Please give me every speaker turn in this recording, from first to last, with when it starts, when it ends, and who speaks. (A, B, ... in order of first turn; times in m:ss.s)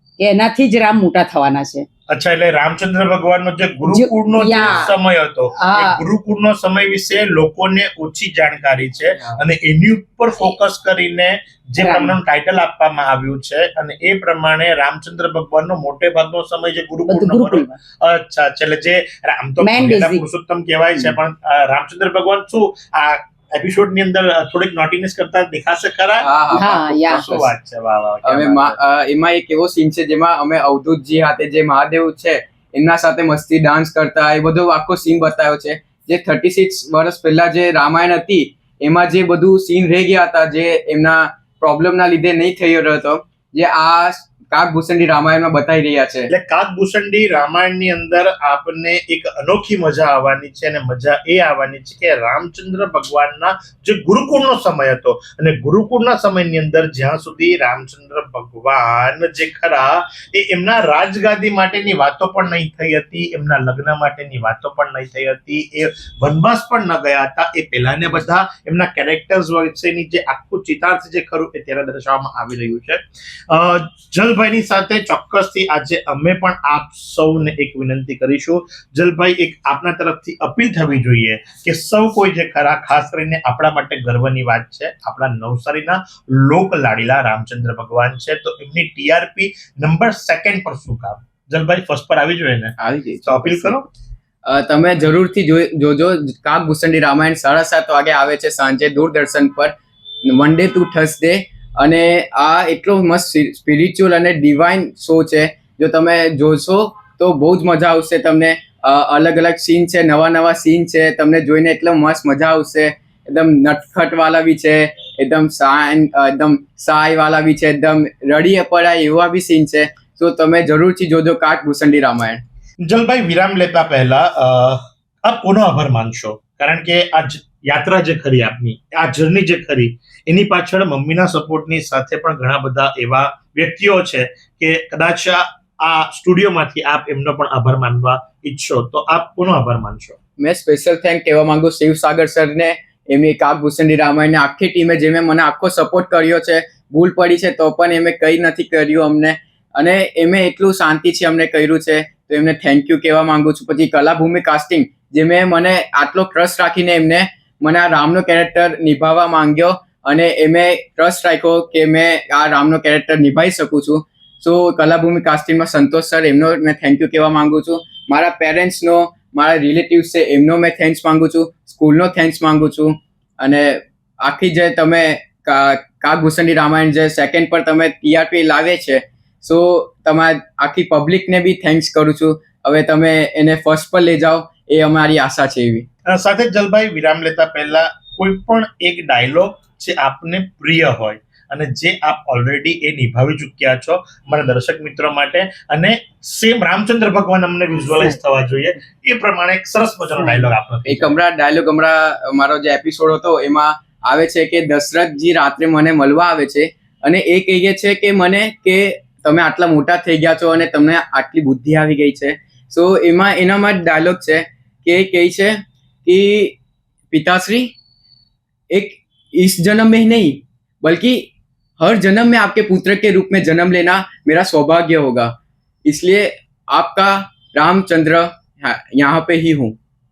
0:00.2-0:01.8 A
0:02.1-0:28.8 B
0:03.9-0:05.0 A
0:05.6-0:06.0 A
0:11.8-0:12.2 A
0:17.1-0:17.8 A
0:19.6-0:20.2 A
0:26.2-0:27.5 C
0:26.5-0:27.4 A
0:28.3-0:46.3 C
0:46.3-1:33.9 B
1:32.8-1:33.8 C
1:34.5-1:39.7 C
1:40.3-2:02.4 C
2:02.8-2:20.2 B
2:20.4-3:05.9 C
3:06.1-3:21.2 B
3:20.2-3:20.5 A
3:20.9-3:36.6 C
3:37.1-3:37.7 C
3:38.7-3:41.3 C
3:41.8-3:45.3 C
3:45.9-3:49.8 C